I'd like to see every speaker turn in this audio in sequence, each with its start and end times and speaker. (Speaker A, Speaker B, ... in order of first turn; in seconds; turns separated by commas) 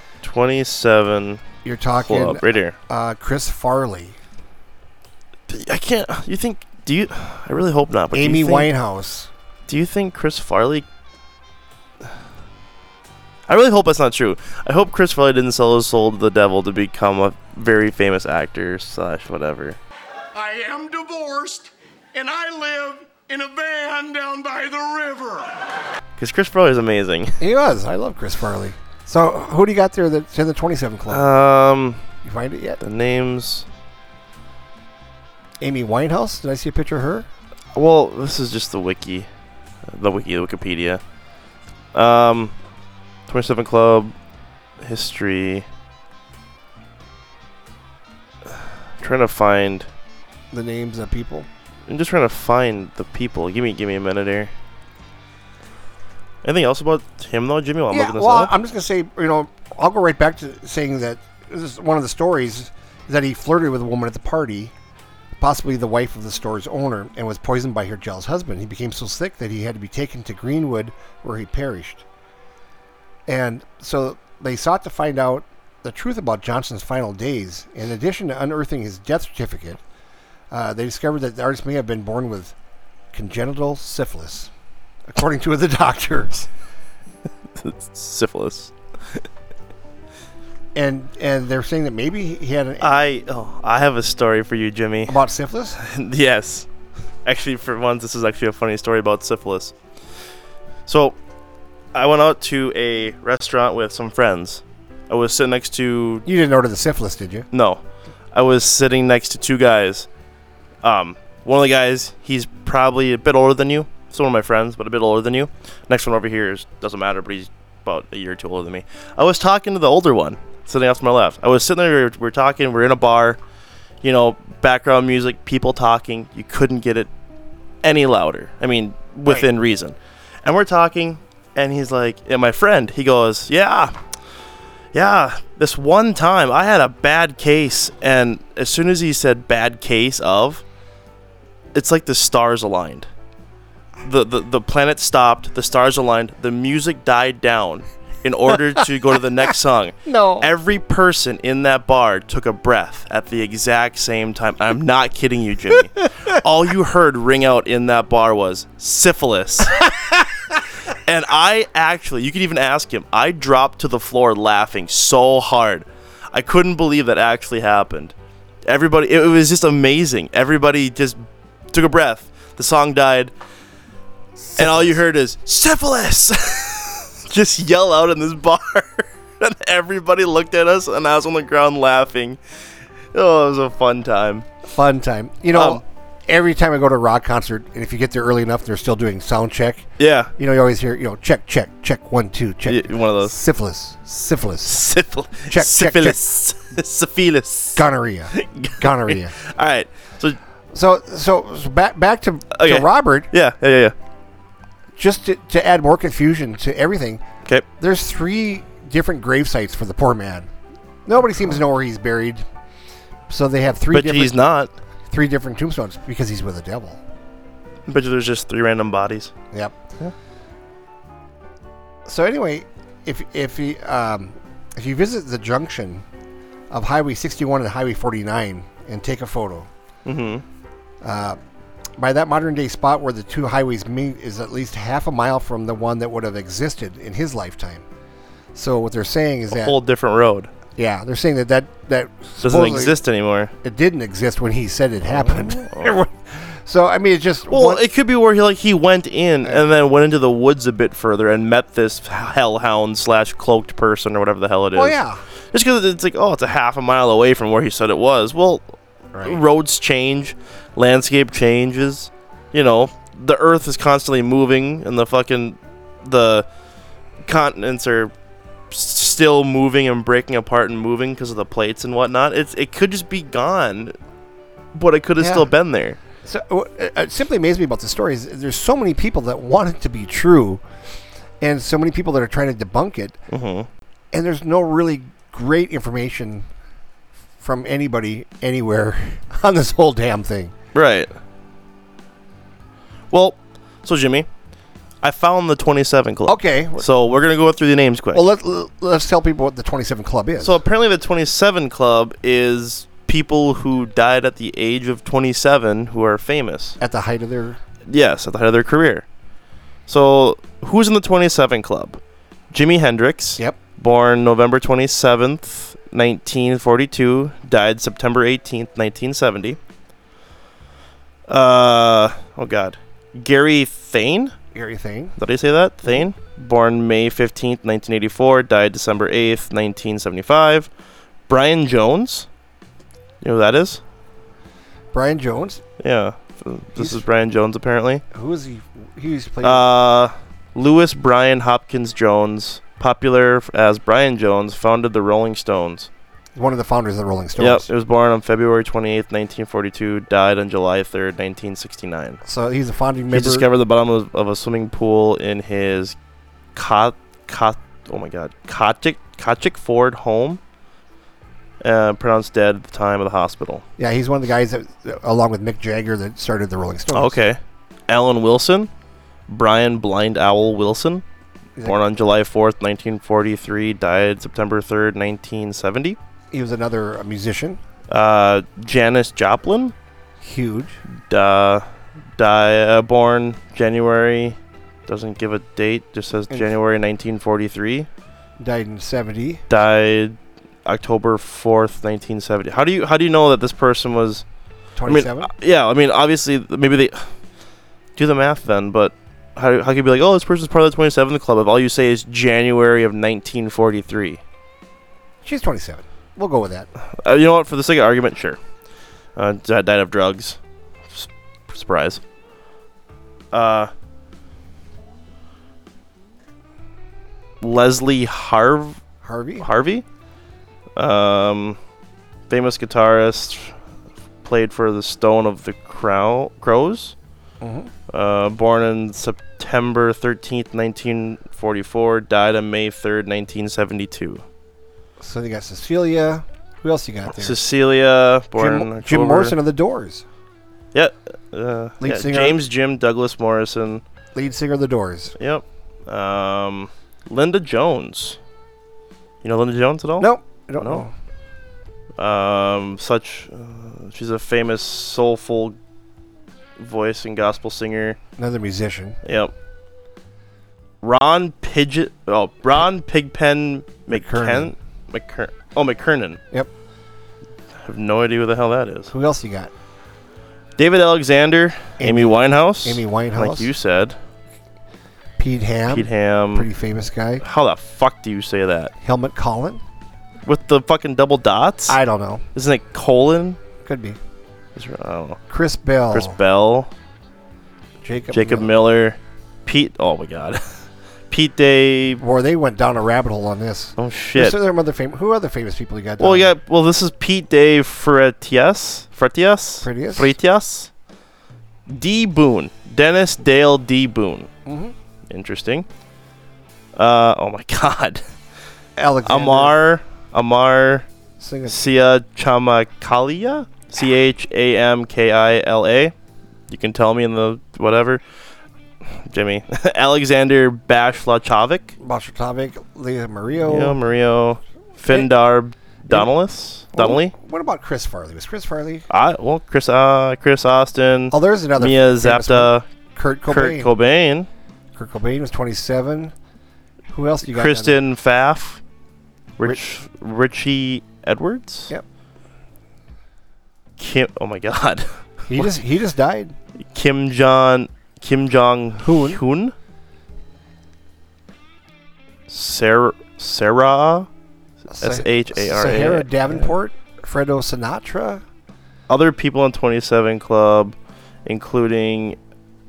Speaker A: 0.2-1.4, Speaker B: 1.6-4.2, Speaker A: 2.0-2.8, Speaker A: 5.5-8.7, Speaker B: 8.1-9.3, Speaker A: 9.7-10.9, Speaker A: 13.5-19.8, Speaker C: 20.3-25.6, Speaker A: 26.2-27.4, Speaker B: 27.4-31.3, Speaker A: 31.1-32.0, Speaker B: 32.2-32.8, Speaker A: 32.8-33.7, Speaker B: 35.6-37.3, Speaker A: 37.8-39.3, Speaker A: 39.9-41.0, Speaker A: 41.9-42.5, Speaker A: 43.3-44.1, Speaker A: 44.8-45.7, Speaker A: 49.0-49.9, Speaker B: 50.5-51.5, Speaker A: 51.9-54.5, Speaker A: 56.4-58.5, Speaker B: 57.9-64.7, Speaker B: 65.4-72.0, Speaker B: 73.3-79.8, Speaker B: 80.5-82.5, Speaker B: 83.1-84.5, Speaker B: 85.1-86.5, Speaker A: 87.6-88.7, Speaker B: 90.8-92.9, Speaker A: 92.8-95.2, Speaker B: 95.1-95.8, Speaker A: 95.8-96.7, Speaker A: 97.2-99.8, Speaker A: 100.9-101.2, Speaker A: 101.9-106.3, Speaker B: 106.3-107.5, Speaker A: 107.5-110.1, Speaker A: 110.8-123.4, Speaker A: 124.0-127.1, Speaker A: 127.8-133.9, Speaker A: 134.9-140.6, Speaker A: 141.7-143.1, Speaker A: 144.0-159.9, Speaker B: 150.1-150.5, Speaker A: 160.9-168.1, Speaker A: 168.7-173.3, Speaker B: 174.5-175.0, Speaker A: 174.6-182.4, Speaker A: 183.1-184.5, Speaker B: 184.7-194.9, Speaker A: 185.5-185.8, Speaker A: 190.0-190.3, Speaker A: 192.7-193.4, Speaker A: 194.7-200.4, Speaker B: 195.5-196.2, Speaker B: 197.8-199.3, Speaker B: 200.7-203.3, Speaker A: 202.5-203.9, Speaker B: 205.0-207.2, Speaker B: 207.8-210.5, Speaker B: 211.1-212.4, Speaker B: 213.3-214.4, Speaker A: 213.9-214.7, Speaker B: 215.1-217.0, Speaker A: 217.9-219.3, Speaker B: 222.1-226.1, Speaker B: 226.7-229.7, Speaker A: 230.1-230.4, Speaker B: 231.0-231.4, Speaker B: 232.0-237.9, Speaker B: 238.6-239.8, Speaker A: 239.5-240.5, Speaker B: 240.8-243.0, Speaker A: 242.4-243.5, Speaker B: 243.6-247.8, Speaker A: 245.1-246.0, Speaker A: 247.5-255.0, Speaker B: 254.7-255.2, Speaker A: 255.5-258.6, Speaker B: 259.1-259.4, Speaker A: 259.2-266.5, Speaker A: 267.3-268.1, Speaker A: 268.7-273.9, Speaker A: 274.8-276.0, Speaker B: 275.2-275.5, Speaker B: 276.2-280.6, Speaker B: 281.4-283.2, Speaker A: 283.3-283.7, Speaker B: 284.1-286.5, Speaker B: 287.4-290.5, Speaker A: 290.7-291.1, Speaker A: 293.1-294.3, Speaker A: 295.0-298.2, Speaker B: 296.3-296.9, Speaker B: 298.1-300.6, Speaker A: 300.4-306.8, Speaker B: 306.8-307.6, Speaker A: 307.9-309.1, Speaker A: 309.9-312.0, Speaker A: 312.5-319.6, Speaker A: 321.3-324.3, Speaker B: 324.5-325.1, Speaker A: 325.2-330.7, Speaker A: 331.3-332.3, Speaker A: 333.2-333.8, Speaker B: 334.9-335.6, Speaker A: 335.8-338.0, Speaker B: 336.8-337.0, Speaker B: 338.1-339.7, Speaker A: 339.4-345.9, Speaker B: 346.4-347.7, Speaker A: 347.4-352.2, Speaker B: 352.2-353.5, Speaker A: 353.1-356.0, Speaker A: 356.6-360.4, Speaker A: 361.6-363.6, Speaker B: 363.8-367.2, Speaker A: 366.9-368.7, Speaker A: 369.3-371.0, Speaker A: 371.6-376.0, Speaker B: 376.3-377.6, Speaker A: 377.9-379.8, Speaker B: 380.2-380.8, Speaker A: 380.9-381.6, Speaker A: 382.2-387.9, Speaker B: 388.4-389.4, Speaker A: 389.5-394.2, Speaker B: 394.8-395.3, Speaker A: 394.9-397.1, Speaker A: 398.0-404.2, Speaker B: 405.2-406.7, Speaker A: 407.0-408.4, Speaker A: 409.2-410.4, Speaker A: 410.9-412.0, Speaker A: 413.3-413.7, Speaker A: 417.4-418.8, Speaker B: 419.0-419.5, Speaker A: 419.4-419.8, Speaker A: 420.8-421.6, Speaker A: 422.3-423.6, Speaker A: 424.2-426.9, Speaker B: 427.4-427.7, Speaker A: 427.9-434.2, Speaker B: 435.0-437.4, Speaker A: 437.1-439.4, Speaker B: 438.4-440.0, Speaker A: 440.7-443.8, Speaker B: 441.8-442.4, Speaker B: 444.1-445.1, Speaker A: 445.2-448.2, Speaker A: 449.2-450.9, Speaker B: 450.0-450.9, Speaker A: 452.0-455.6, Speaker A: 456.6-458.0, Speaker B: 458.2-459.0, Speaker A: 459.0-459.3, Speaker A: 460.8-466.2, Speaker B: 463.9-464.5, Speaker A: 467.6-468.9, Speaker B: 468.9-469.5, Speaker A: 470.6-474.0, Speaker B: 471.8-473.5, Speaker B: 475.2-477.2, Speaker A: 475.7-476.5, Speaker A: 477.2-478.7, Speaker B: 478.8-479.6, Speaker A: 480.2-481.8, Speaker B: 481.7-482.2, Speaker A: 482.4-483.4, Speaker B: 483.6-484.0, Speaker A: 484.6-485.2, Speaker B: 485.3-486.2, Speaker A: 485.9-486.7, Speaker B: 487.8-488.5, Speaker A: 488.1-490.4, Speaker A: 491.1-492.0, Speaker B: 492.0-496.3, Speaker A: 493.8-494.4, Speaker A: 496.0-500.7, Speaker B: 499.6-500.1, Speaker A: 501.7-504.3, Speaker B: 504.5-504.8, Speaker A: 505.1-505.7, Speaker A: 506.8-508.0, Speaker B: 508.8-509.6, Speaker A: 509.1-510.9, Speaker B: 511.2-511.7, Speaker A: 511.5-515.9, Speaker A: 516.5-518.0, Speaker A: 519.1-521.8, Speaker B: 521.8-523.8, Speaker A: 523.4-527.1, Speaker B: 526.7-528.9, Speaker A: 528.9-532.7, Speaker B: 531.1-533.7, Speaker A: 533.3-534.3, Speaker B: 534.8-536.1, Speaker B: 536.9-537.8, Speaker A: 537.3-538.6, Speaker A: 539.4-541.7, Speaker A: 543.8-545.4, Speaker B: 545.3-546.4, Speaker A: 546.7-549.5, Speaker B: 548.8-549.2, Speaker A: 552.3-554.1, Speaker B: 554.7-558.2, Speaker A: 554.8-556.5, Speaker A: 558.9-562.2